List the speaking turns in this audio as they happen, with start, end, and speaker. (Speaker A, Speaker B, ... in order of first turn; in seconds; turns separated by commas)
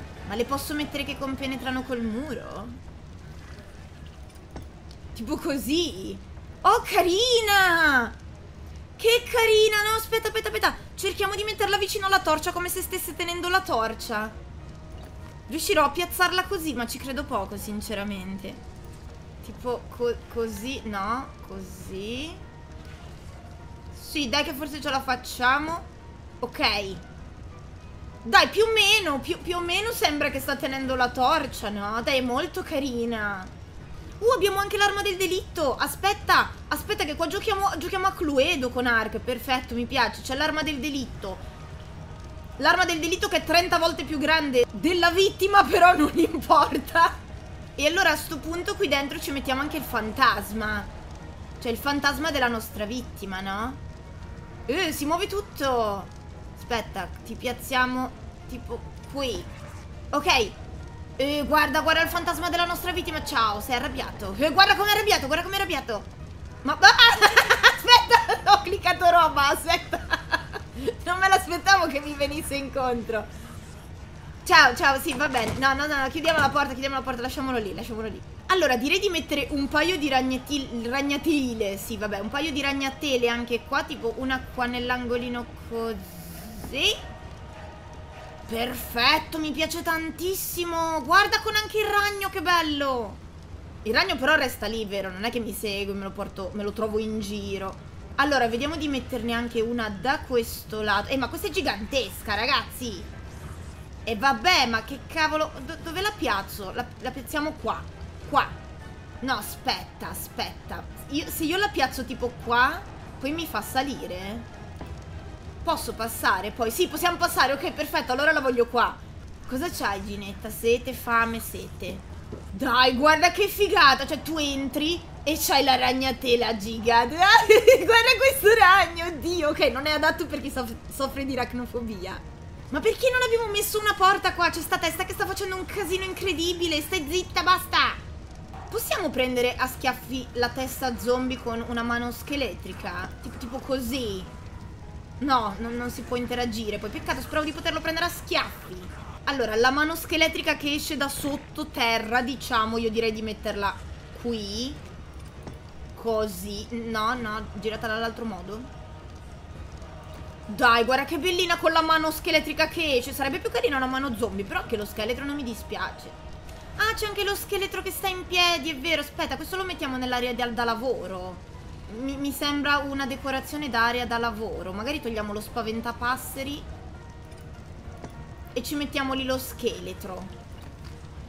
Speaker A: 0.3-2.8, Speaker A: 5.2-8.2, Speaker A: 9.0-14.3, Speaker A: 15.5-18.6, Speaker A: 19.4-22.4, Speaker A: 23.9-25.9, Speaker A: 26.4-27.0, Speaker A: 28.2-33.5, Speaker A: 34.2-41.4, Speaker A: 42.6-47.2, Speaker A: 47.8-50.9, Speaker A: 51.6-53.8, Speaker A: 54.7-59.5, Speaker A: 60.1-60.6, Speaker A: 61.2-66.1, Speaker A: 66.6-73.3, Speaker A: 74.5-87.0, Speaker A: 88.5-93.2, Speaker A: 93.8-103.1, Speaker A: 104.0-108.5, Speaker A: 109.2-114.5, Speaker A: 115.6-138.0, Speaker A: 138.7-144.3, Speaker A: 145.2-154.8, Speaker A: 155.9-158.7, Speaker A: 160.5-166.2, Speaker A: 166.8-176.7, Speaker A: 178.5-180.3